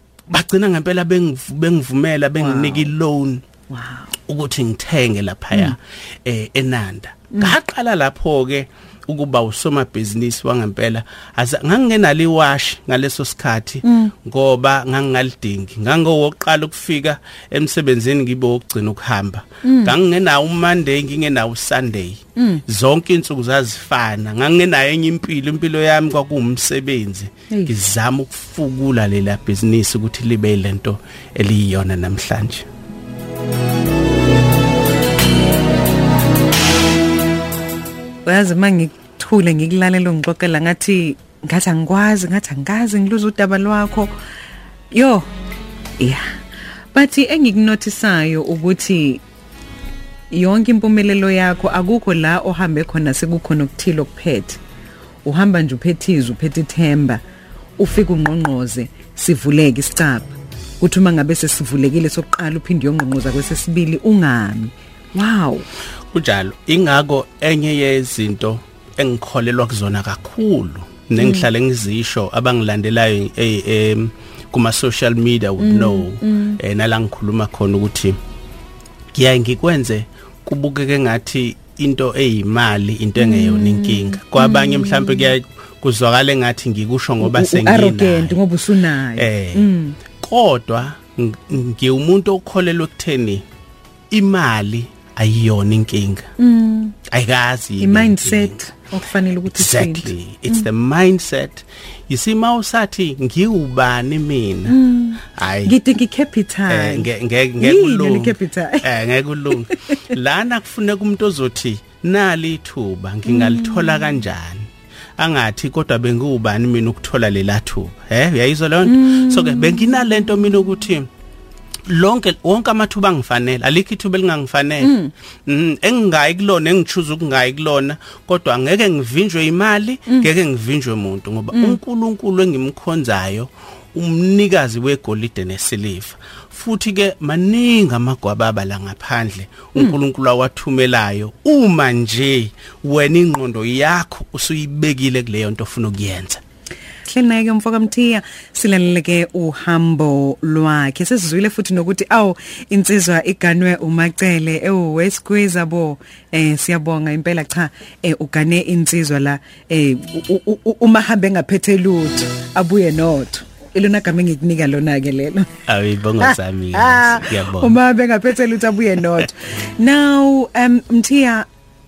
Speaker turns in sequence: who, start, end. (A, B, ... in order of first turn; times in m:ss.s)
0:00.3-0:03.4 A
0:02.4-0:02.9 B
0:03.7-0:04.1 B
0:04.3-0:32.7 A
0:13.8-0:14.1 B
0:19.6-0:19.9 B
0:22.4-0:22.6 B
0:27.5-0:27.7 B
0:38.2-0:44.1 B
0:44.9-0:45.3 B
0:46.0-0:46.3 B
0:46.9-0:49.2 B
0:50.3-0:54.6 B
0:55.2-0:57.2 B
0:57.8-1:05.7 B
1:06.1-1:18.2 A
1:11.2-1:11.5 B
1:15.6-1:16.6 B
1:19.1-1:28.4 A
1:23.2-1:25.3 B
1:27.2-1:30.0 B
1:29.2-1:33.4 A
1:34.1-1:36.3 A
1:36.4-1:37.0 B
1:37.1-1:38.6 A
1:37.8-1:40.6 B
1:39.5-1:44.8 A
1:44.7-1:47.1 B
1:45.3-1:45.7 A
1:46.7-2:01.1 A
1:47.6-1:48.9 B
1:49.5-1:50.0 B
1:53.2-1:54.2 B
1:58.8-1:59.9 B
2:01.9-2:04.9 A
2:04.8-2:05.1 B
2:05.5-2:26.4 A
2:11.5-2:11.8 B
2:27.1-2:45.5 B
2:45.7-2:47.8 A
2:46.2-2:51.5 B